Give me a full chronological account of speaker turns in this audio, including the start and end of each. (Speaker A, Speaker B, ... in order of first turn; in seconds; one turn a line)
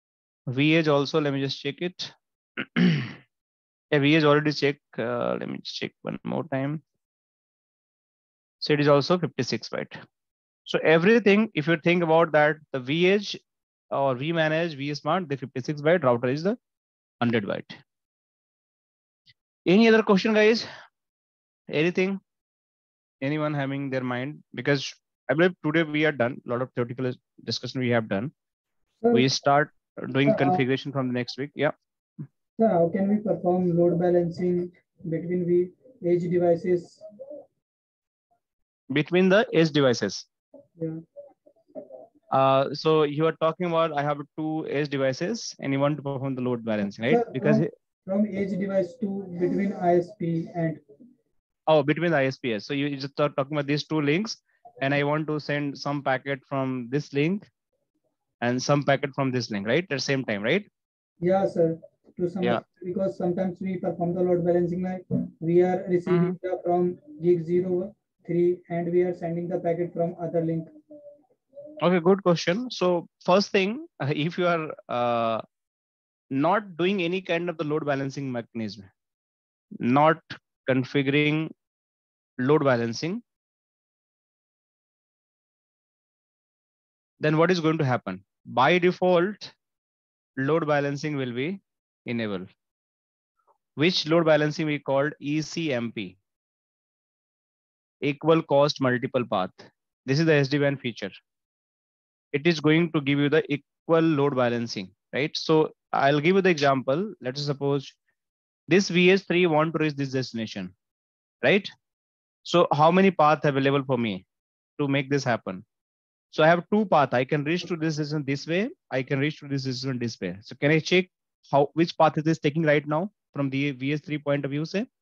Speaker A: 0.5-3.1
Speaker A: 3.9-6.8
Speaker A: 8.6-10.0
Speaker A: 10.7-13.4
Speaker A: 13.9-16.6
Speaker A: 17.2-17.8
Speaker A: 19.6-20.7
Speaker A: 21.7-22.2
Speaker A: 23.2-28.3
Speaker B: 29.0-29.3
Speaker A: 29.1-31.7
Speaker B: 30.3-30.6
Speaker B: 32.6-37.0
Speaker A: 38.9-40.2
Speaker A: 42.3-47.7
Speaker B: 47.0-50.8
Speaker A: 51.7-57.4
Speaker A: 58.4-60.6
Speaker B: 61.2-70.7
Speaker A: 66.1-66.4
Speaker A: 71.8-75.4
Speaker A: 76.3-78.9
Speaker A: 79.8-81.5
Speaker A: 82.4-83.2
Speaker A: 87.2-89.5
Speaker A: 90.4-92.5
Speaker A: 93.8-96.2
Speaker A: 98.0-101.1
Speaker A: 102.3-107.9
Speaker A: 108.7-110.7
Speaker A: 111.4-111.7
Speaker A: 112.5-114.2
Speaker A: 114.8-115.6
Speaker A: 116.3-124.8